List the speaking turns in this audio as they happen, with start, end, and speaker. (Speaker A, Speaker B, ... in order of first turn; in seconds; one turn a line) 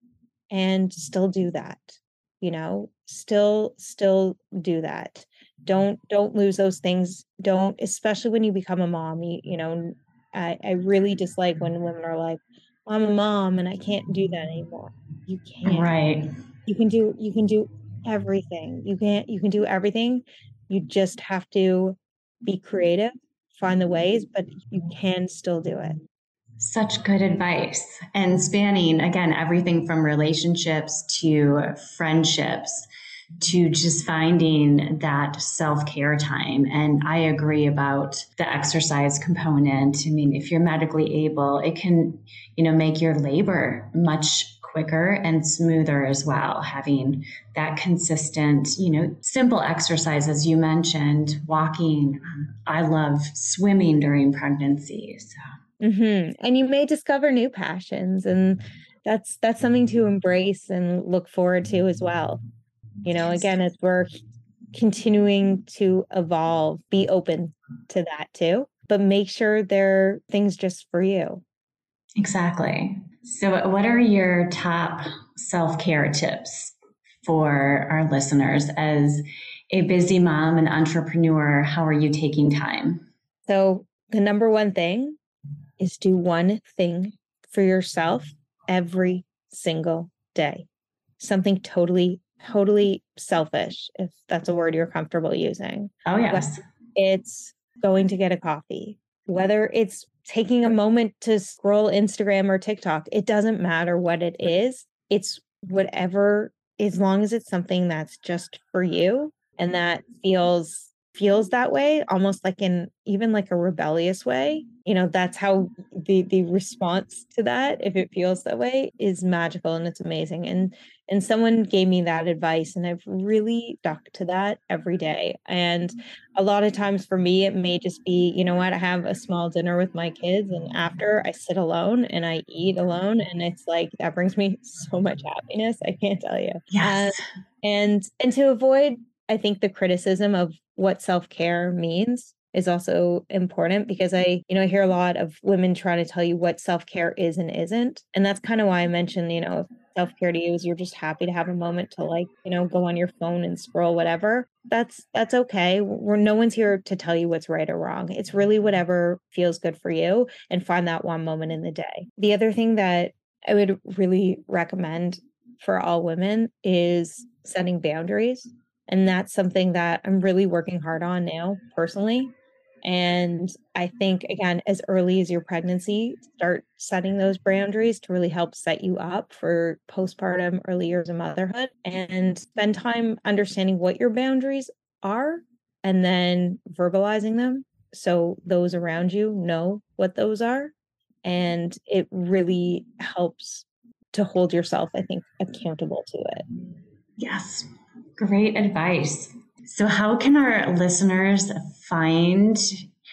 Speaker A: 0.5-16.0
Speaker B: 15.6-16.2
Speaker A: 16.6-26.0
Speaker B: 26.6-32.9
Speaker B: 33.4-55.4
Speaker A: 55.8-62.4
Speaker A: 63.0-64.1
Speaker A: 64.7-71.4
Speaker B: 72.2-83.0
Speaker A: 83.5-85.2
Speaker A: 85.8-90.7
Speaker A: 91.2-172.3
Speaker B: 96.1-96.6
Speaker B: 136.7-137.2
Speaker A: 172.8-190.7
Speaker A: 191.2-196.4
Speaker B: 197.2-202.8